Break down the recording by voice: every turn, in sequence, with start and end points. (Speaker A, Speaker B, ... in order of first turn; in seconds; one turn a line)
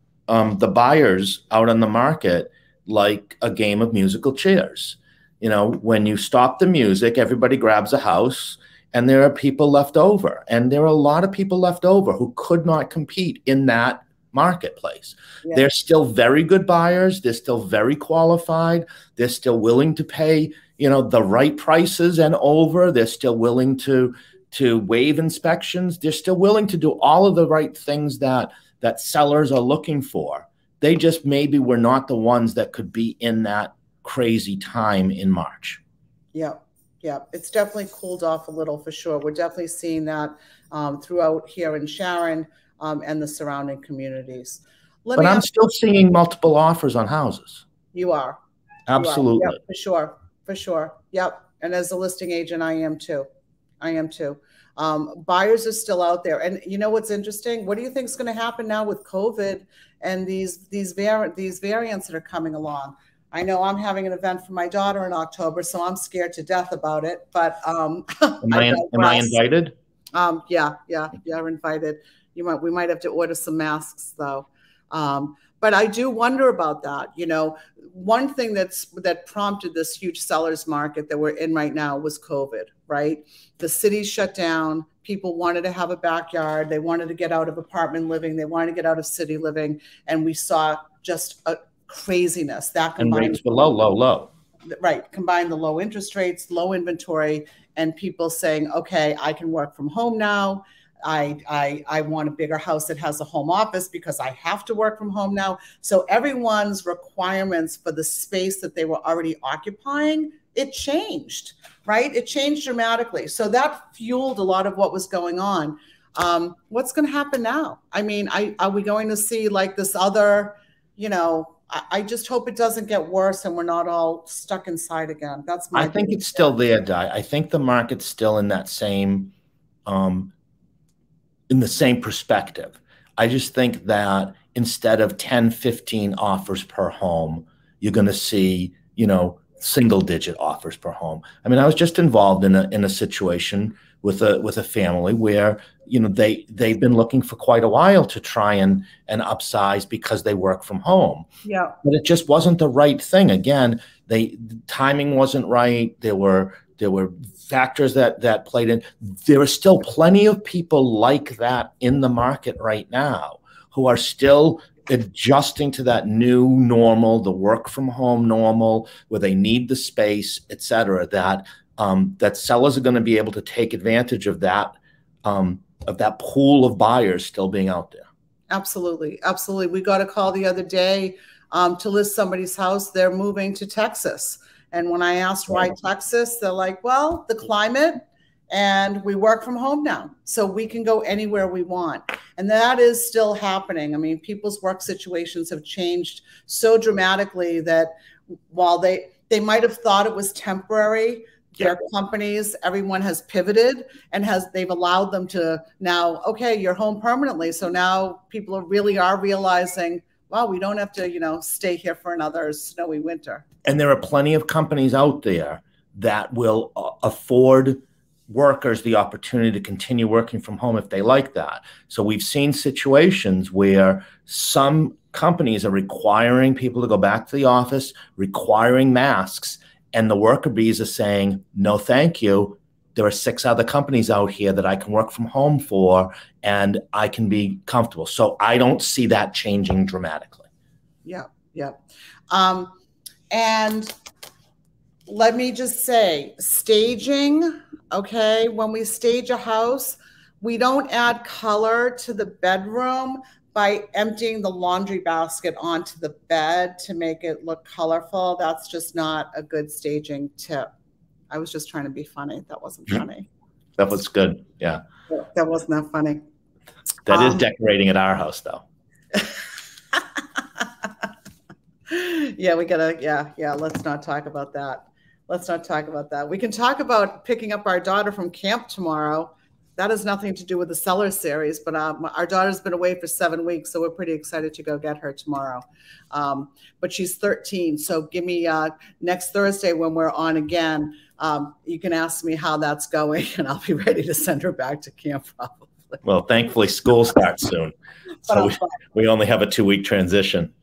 Speaker A: 0.3-35.8
Speaker B: 36.3-45.5
Speaker A: 45.2-47.6
Speaker B: 47.9-48.4
Speaker A: 48.9-49.6
Speaker B: 48.9-53.3
Speaker B: 53.8-69.4
Speaker A: 68.4-69.7
Speaker B: 70.1-93.7
Speaker A: 93.0-94.3
Speaker B: 94.7-126.5
Speaker A: 125.7-129.3
Speaker A: 129.8-130.3
Speaker A: 131.5-151.2
Speaker B: 151.4-151.8
Speaker A: 151.8-178.1
Speaker B: 178.5-197.9
Speaker B: 198.5-213.5
Speaker A: 213.6-240.4
Speaker B: 241.0-242.7
Speaker B: 243.3-243.9
Speaker B: 245.1-260.7
Speaker B: 261.3-263.3
Speaker A: 263.8-264.8
Speaker B: 265.1-266.2
Speaker A: 267.1-268.6
Speaker B: 267.1-267.4
Speaker B: 269.9-270.9
Speaker B: 271.9-296.0
Speaker A: 296.0-297.7
Speaker A: 298.2-300.5
Speaker B: 298.3-298.7